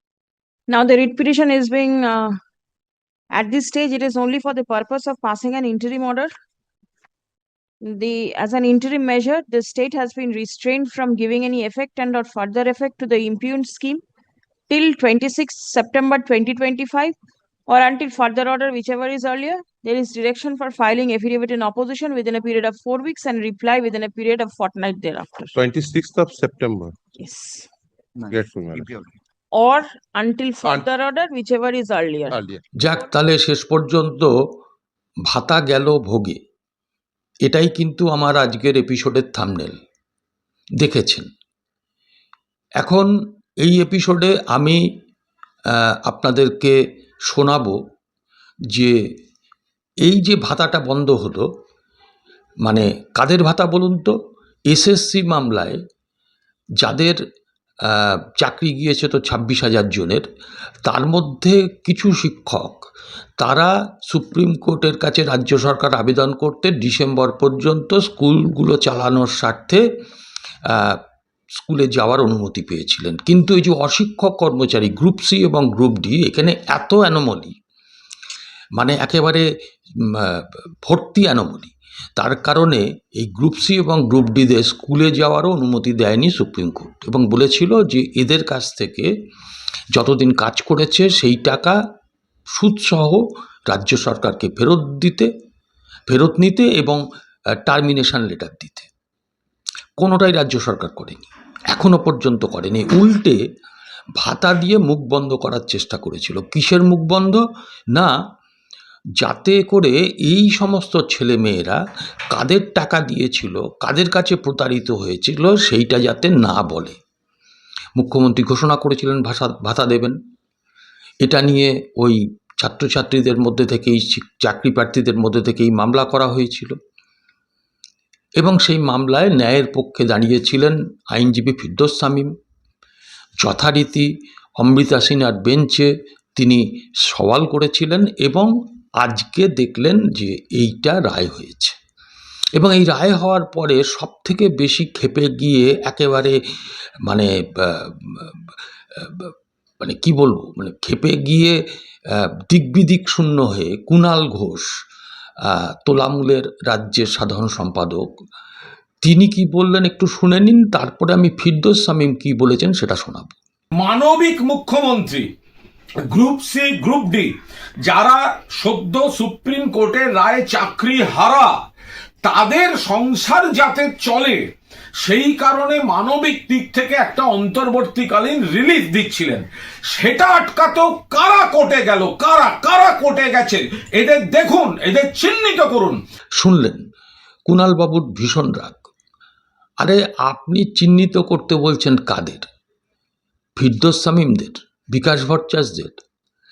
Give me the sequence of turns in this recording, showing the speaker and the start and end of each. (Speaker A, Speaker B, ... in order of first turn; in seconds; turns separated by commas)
Speaker A: 0.7-2.3, Speaker A: 3.3-6.3, Speaker A: 7.8-14.0, Speaker A: 14.7-17.1, Speaker A: 17.7-25.6, Speaker B: 25.6-26.9, Speaker A: 27.2-27.7, Speaker B: 28.3-28.9, Speaker A: 29.5-32.4, Speaker B: 32.3-32.6, Speaker C: 32.8-34.3, Speaker C: 35.3-36.4, Speaker C: 37.5-39.8, Speaker C: 40.8-41.3, Speaker C: 42.8-43.1, Speaker C: 43.6-44.8, Speaker C: 45.9-46.8, Speaker C: 47.3-47.8, Speaker C: 50.0-51.5, Speaker C: 52.6-54.1, Speaker C: 54.7-55.8, Speaker C: 56.8-57.2, Speaker C: 57.9-60.2, Speaker C: 60.9-62.8, Speaker C: 63.4-69.8, Speaker C: 70.7-71.0, Speaker C: 71.6-77.5, Speaker C: 78.8-79.5, Speaker C: 80.0-89.1, Speaker C: 89.9-91.8, Speaker C: 92.5-95.3, Speaker C: 96.1-97.0, Speaker C: 97.6-98.9, Speaker C: 100.0-103.4, Speaker C: 104.2-107.4, Speaker C: 109.2-111.8, Speaker C: 112.3-117.0, Speaker C: 118.0-120.2, Speaker C: 121.2-126.8, Speaker C: 128.4-132.3, Speaker C: 133.4-141.8, Speaker C: 142.6-146.4, Speaker C: 147.1-151.6, Speaker C: 152.1-154.7, Speaker C: 155.4-158.1, Speaker C: 159.0-163.3, Speaker D: 163.8-165.3, Speaker D: 166.0-167.3, Speaker D: 167.8-171.6, Speaker D: 172.2-186.0, Speaker C: 186.4-186.8, Speaker C: 187.5-188.9, Speaker C: 189.8-192.4, Speaker C: 193.6-196.0